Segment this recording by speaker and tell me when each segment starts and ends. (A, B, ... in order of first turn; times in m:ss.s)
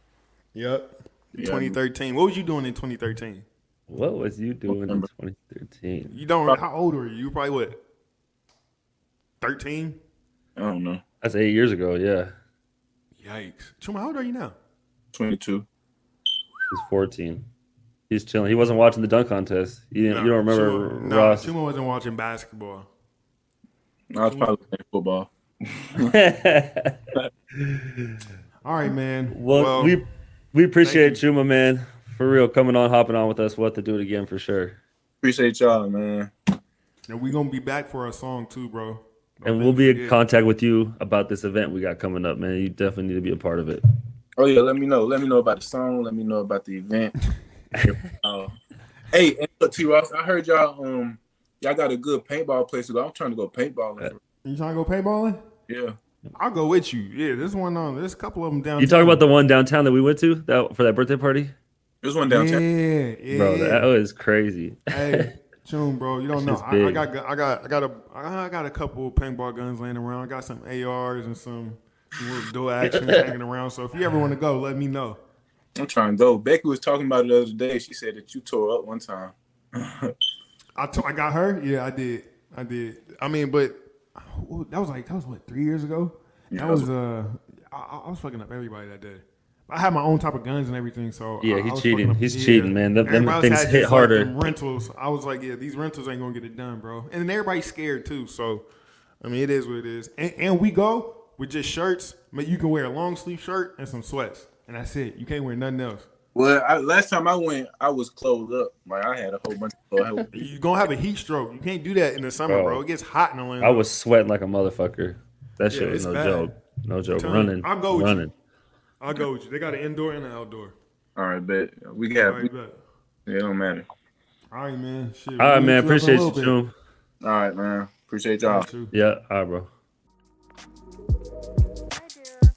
0:00.5-0:03.4 A
0:01.3-0:01.7 B
0:03.9-0:06.2 C
0:04.7-0:05.0 B
0:06.1-0:07.8 A
0:09.4-0:10.0 A
0:10.6-0:11.0 B
0:11.2-0:12.3 C
0:13.2-0:14.5 A
0:15.1-0:15.7 B
0:16.7-0:17.4 C
0:18.1-0:21.5 C
0:20.1-0:22.9 A
0:24.1-0:26.1 B
0:26.0-0:27.0 C
0:27.6-0:28.2 C
0:28.6-0:30.0 A
0:29.3-0:34.8 C
0:30.8-0:31.2 A
0:35.2-0:36.3 B
0:37.1-0:40.2 A
0:39.4-0:43.8 C
0:44.4-0:47.1 B
0:47.7-0:48.5 B
0:49.1-0:54.2 B
0:54.4-0:55.4 A
0:55.7-0:56.0 B
0:56.4-0:59.2 A
0:58.8-1:01.5 C
1:02.0-1:02.6 B
1:02.2-1:03.9 A
1:03.3-1:05.2 C
1:04.9-1:15.2 A
1:06.4-1:07.0 C
1:13.0-1:13.3 C
1:15.8-1:20.2 B
1:20.8-1:38.6 A
1:26.5-1:26.9 B
1:31.4-1:34.3 C
1:39.2-1:46.1 A
1:46.3-1:50.5 B
1:50.3-1:53.8 A
1:52.5-1:52.8 C
1:53.6-1:58.3 C
1:55.7-1:56.5 A
1:57.2-1:58.2 A
1:59.0-2:00.7 A
2:01.2-2:02.5 B
2:02.2-2:02.8 A
2:03.2-2:03.9 B
2:04.5-2:06.5 A
2:05.4-2:06.7 C
2:07.2-2:08.7 B
2:08.4-2:08.9 A
2:08.9-2:09.7 C